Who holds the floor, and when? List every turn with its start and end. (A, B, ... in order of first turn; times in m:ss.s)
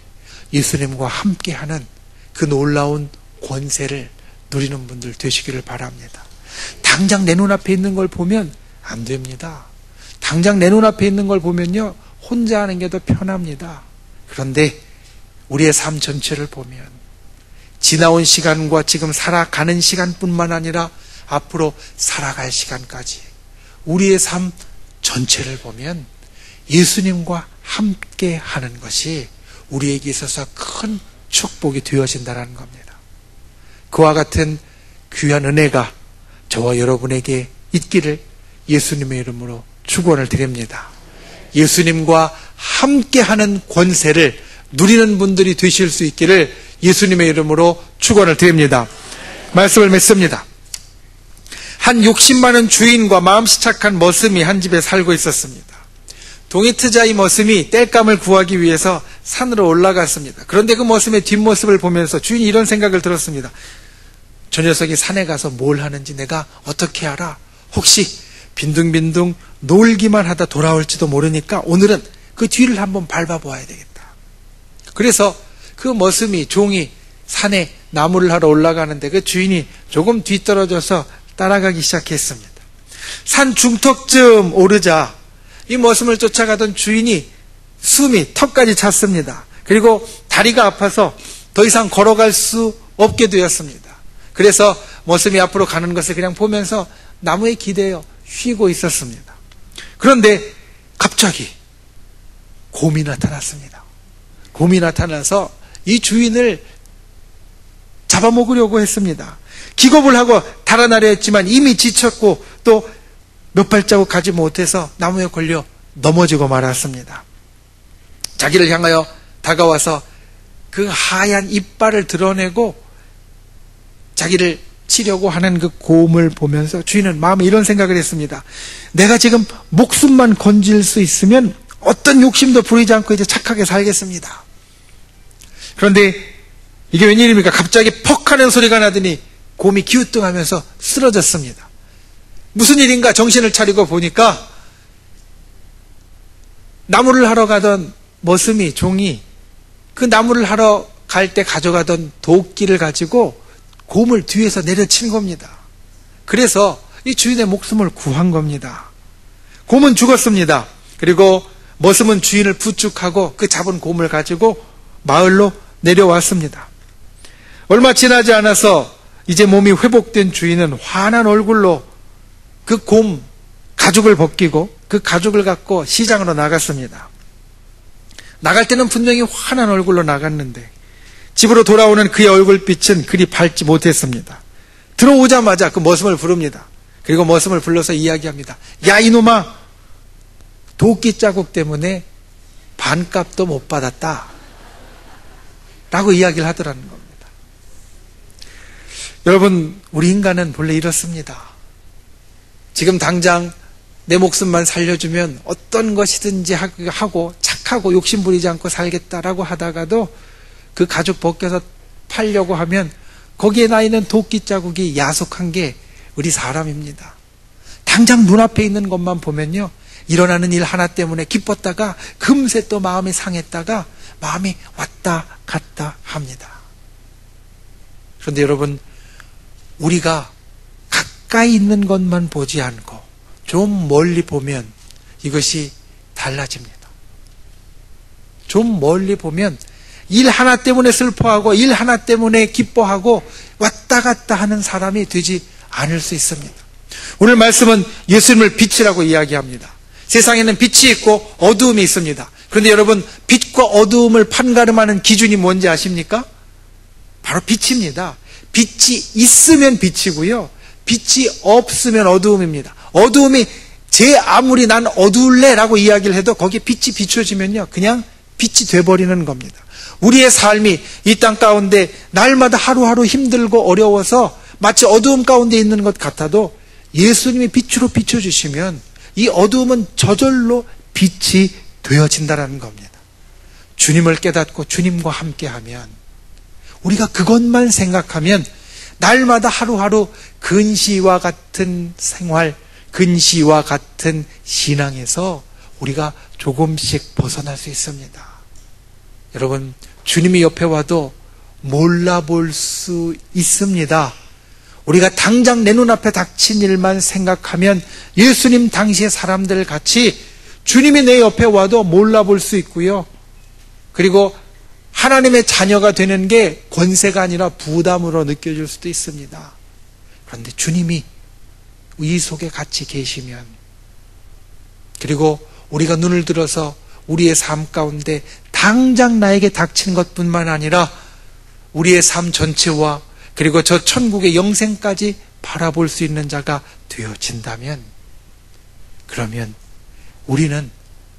0:00.5-0:06.3 A
0:06.8-0:09.7 A
0:10.2-0:14.8 A
0:15.5-0:17.0 A
0:17.8-0:23.3 A
0:23.9-0:26.1 A
0:26.7-0:33.0 A
0:33.9-0:35.9 A
0:36.5-0:40.9 A
0:41.5-0:48.9 A
0:49.5-0:50.4 A
0:51.8-0:55.8 A
0:56.5-1:03.5 A
1:04.5-1:14.1 A
1:14.9-1:22.6 A
1:23.3-1:25.2 A
1:25.7-1:27.3 A
1:27.8-1:39.4 A
1:40.0-1:41.5 A
1:42.7-1:43.8 A
1:44.5-1:46.6 A
1:48.1-1:52.9 A
1:53.5-1:57.2 A
1:58.4-2:00.0 A
2:00.7-2:02.8 A
2:04.2-2:14.4 A
2:15.8-2:16.3 A
2:16.9-2:21.7 A
2:22.5-2:24.5 A
2:26.9-2:29.2 A
2:30.0-2:35.6 A
2:36.3-2:38.9 A
2:39.7-2:46.7 A
2:47.7-2:51.9 A
2:52.6-2:57.1 A
2:58.4-3:00.7 A
3:01.4-3:04.4 A
3:05.0-3:09.5 A
3:10.8-3:12.0 A
3:12.8-3:14.3 A
3:15.9-3:17.3 A
3:19.2-3:21.5 A
3:22.8-3:23.5 A
3:24.1-3:30.1 A
3:30.8-3:37.2 A
3:37.9-3:46.6 A
3:48.2-3:48.8 A
3:49.8-3:50.3 A
3:50.9-3:56.9 A
3:58.5-4:06.6 A
4:07.2-4:16.3 A
4:17.2-4:43.0 A
4:43.8-4:46.0 A
4:46.8-4:48.5 A
4:49.0-4:58.3 A
4:59.3-5:04.1 A
5:04.9-5:13.1 A
5:13.9-5:14.4 A
5:14.9-5:19.6 A
5:20.3-5:21.1 A
5:22.0-5:23.6 A
5:25.0-5:30.9 A
5:31.7-5:37.9 A
5:39.1-5:39.6 A
5:40.3-5:40.7 A